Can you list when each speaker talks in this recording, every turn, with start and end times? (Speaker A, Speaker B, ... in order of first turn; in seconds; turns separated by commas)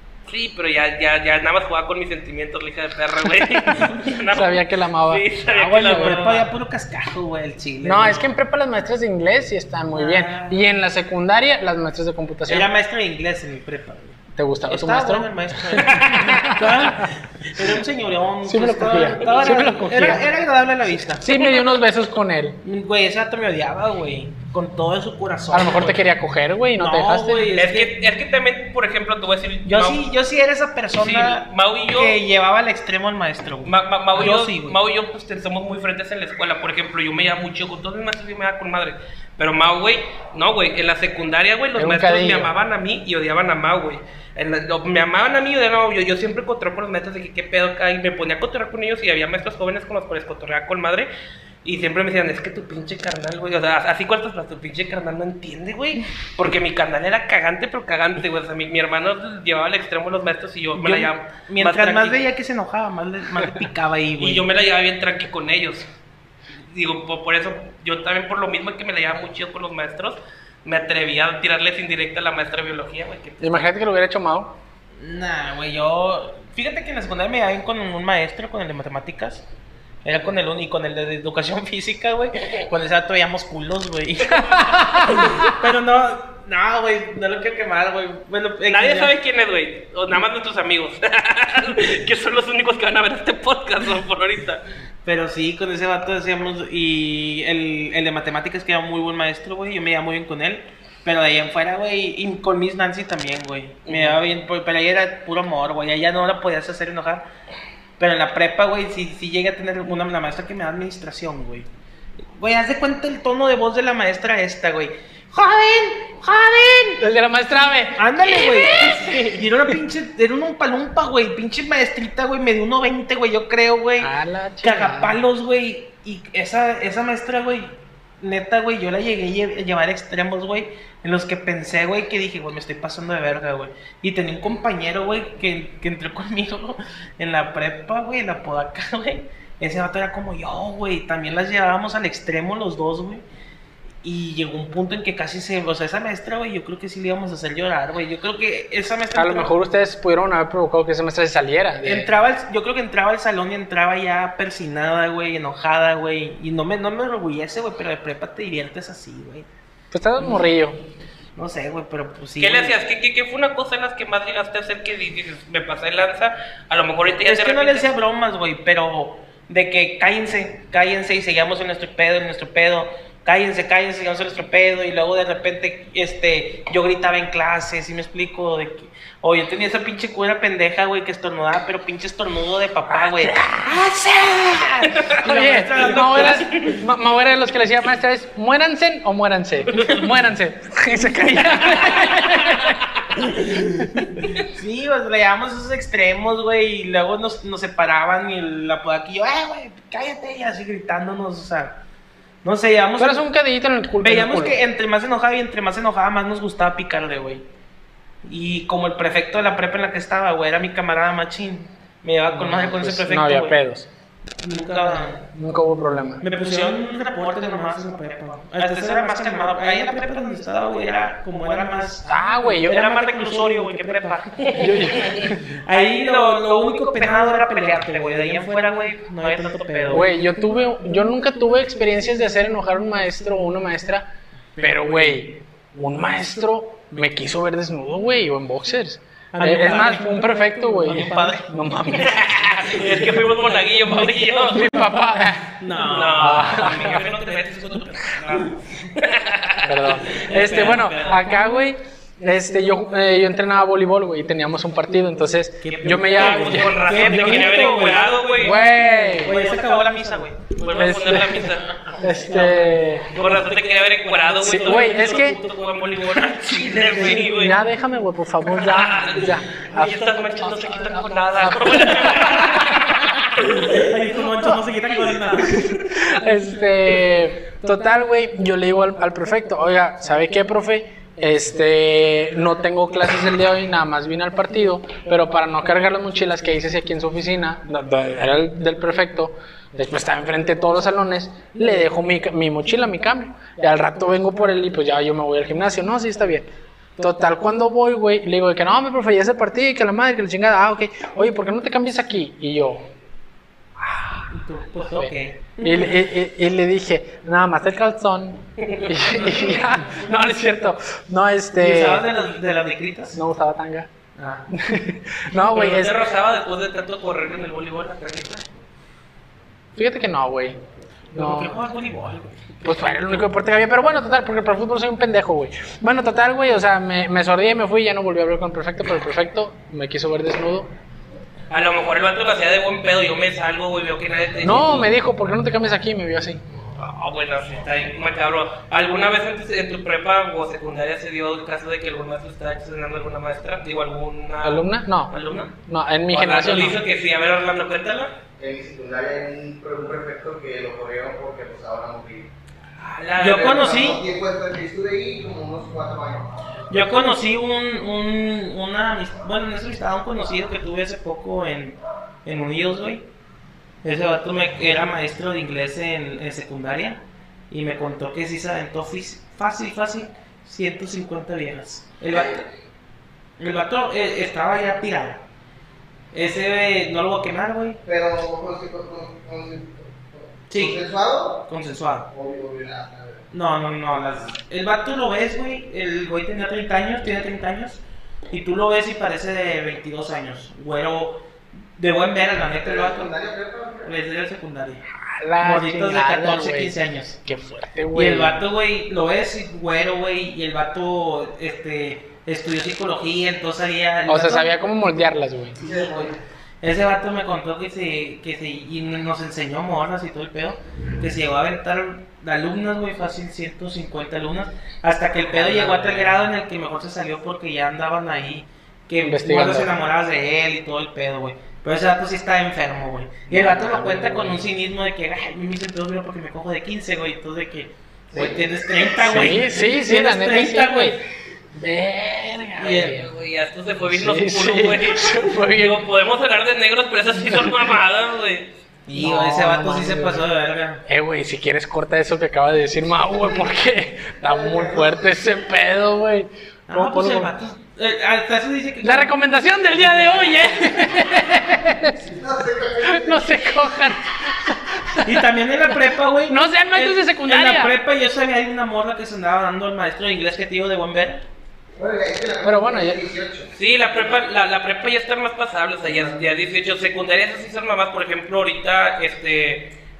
Speaker A: 0.3-6.5, Speaker B: 3.8-6.2, Speaker C: 5.8-8.3, Speaker B: 7.8-12.7, Speaker C: 9.9-10.6, Speaker C: 12.5-21.3, Speaker B: 14.4-17.1, Speaker A: 16.1-16.4, Speaker B: 18.4-20.3, Speaker B: 21.2-22.6, Speaker C: 22.6-26.1, Speaker B: 25.5-27.5, Speaker C: 26.8-27.9, Speaker A: 27.6-30.0, Speaker C: 29.6-34.8, Speaker A: 31.0-32.2, Speaker A: 33.6-51.1, Speaker B: 41.8-42.5, Speaker A: 51.6-62.2, Speaker C: 60.8-64.5, Speaker A: 64.2-65.9, Speaker A: 66.7-73.6, Speaker B: 73.4-74.6, Speaker C: 75.0-79.5, Speaker C: 80.0-89.1, Speaker B: 84.8-85.5, Speaker A: 88.7-94.6, Speaker C: 95.0-107.3, Speaker A: 103.9-104.2, Speaker C: 108.0-111.7, Speaker C: 112.4-117.0, Speaker B: 117.0-119.4, Speaker C: 118.0-143.2, Speaker B: 124.0-125.2, Speaker C: 144.0-149.5, Speaker B: 149.2-152.1, Speaker C: 151.8-159.5, Speaker B: 159.9-160.8, Speaker C: 161.4-162.8, Speaker A: 162.4-167.9, Speaker C: 167.2-186.8, Speaker B: 183.1-183.6, Speaker B: 185.2-192.8, Speaker A: 186.2-186.7, Speaker A: 191.5-193.1, Speaker C: 193.2-201.8, Speaker A: 194.2-194.5, Speaker C: 202.4-203.3, Speaker B: 203.0-204.6, Speaker C: 204.0-207.4, Speaker C: 208.2-213.6, Speaker B: 212.3-213.9, Speaker C: 214.4-215.2, Speaker B: 214.8-216.3, Speaker C: 216.2-230.1, Speaker B: 222.1-222.9, Speaker B: 224.6-225.2, Speaker A: 224.8-225.3, Speaker B: 229.9-234.1, Speaker C: 234.6-235.2, Speaker B: 234.6-242.3, Speaker C: 239.3-241.5, Speaker A: 242.0-244.7, Speaker C: 242.7-244.6, Speaker B: 244.5-245.6, Speaker C: 245.6-248.5, Speaker A: 245.8-250.8, Speaker B: 246.2-247.0, Speaker B: 249.6-256.8, Speaker C: 250.0-251.4, Speaker C: 255.6-260.9, Speaker A: 255.8-258.6, Speaker B: 258.4-259.6, Speaker A: 259.3-261.7, Speaker B: 260.7-263.1, Speaker C: 261.8-262.8, Speaker A: 263.1-267.6, Speaker B: 264.4-265.4, Speaker C: 264.5-264.8, Speaker C: 266.5-267.3, Speaker B: 267.0-270.2, Speaker A: 268.5-273.9, Speaker B: 271.4-273.0, Speaker C: 273.7-275.7, Speaker B: 275.4-302.9, Speaker B: 303.8-304.3, Speaker C: 304.3-306.0, Speaker B: 304.9-312.1, Speaker A: 308.6-309.0, Speaker C: 311.6-313.2, Speaker B: 313.1-313.9, Speaker C: 314.2-314.5, Speaker B: 314.5-316.0, Speaker A: 315.4-318.4, Speaker B: 319.8-320.6, Speaker C: 321.1-323.0, Speaker B: 321.1-321.6, Speaker B: 322.6-330.7, Speaker A: 331.5-334.9, Speaker B: 334.4-336.4, Speaker A: 336.8-345.5, Speaker B: 344.4-346.8, Speaker A: 346.1-348.2, Speaker D: 348.4-352.3, Speaker A: 352.8-353.7, Speaker C: 353.2-354.0, Speaker D: 353.2-356.3, Speaker C: 356.7-363.1, Speaker C: 363.8-372.4, Speaker C: 373.4-375.2, Speaker C: 376.1-377.8, Speaker D: 377.8-381.4, Speaker C: 380.5-380.8, Speaker C: 381.5-382.1, Speaker D: 382.1-383.2, Speaker C: 383.3-391.2, Speaker C: 391.8-393.1, Speaker D: 392.6-393.9, Speaker C: 393.9-394.8, Speaker B: 394.9-398.5, Speaker C: 395.4-397.2, Speaker C: 397.9-404.5, Speaker B: 404.1-405.7, Speaker C: 405.7-431.0, Speaker B: 415.3-416.1, Speaker B: 419.0-419.7, Speaker B: 423.3-424.4, Speaker B: 428.9-431.0, Speaker B: 431.6-433.1, Speaker C: 432.6-433.0, Speaker A: 432.6-438.5, Speaker B: 433.9-435.9, Speaker C: 438.9-440.9, Speaker B: 438.9-440.3, Speaker B: 440.9-447.3, Speaker D: 444.2-445.2, Speaker C: 446.7-449.1, Speaker B: 448.8-452.0, Speaker D: 451.9-453.9, Speaker B: 452.8-457.8, Speaker C: 455.0-461.2, Speaker D: 461.8-463.5, Speaker B: 462.4-463.1, Speaker A: 463.6-469.8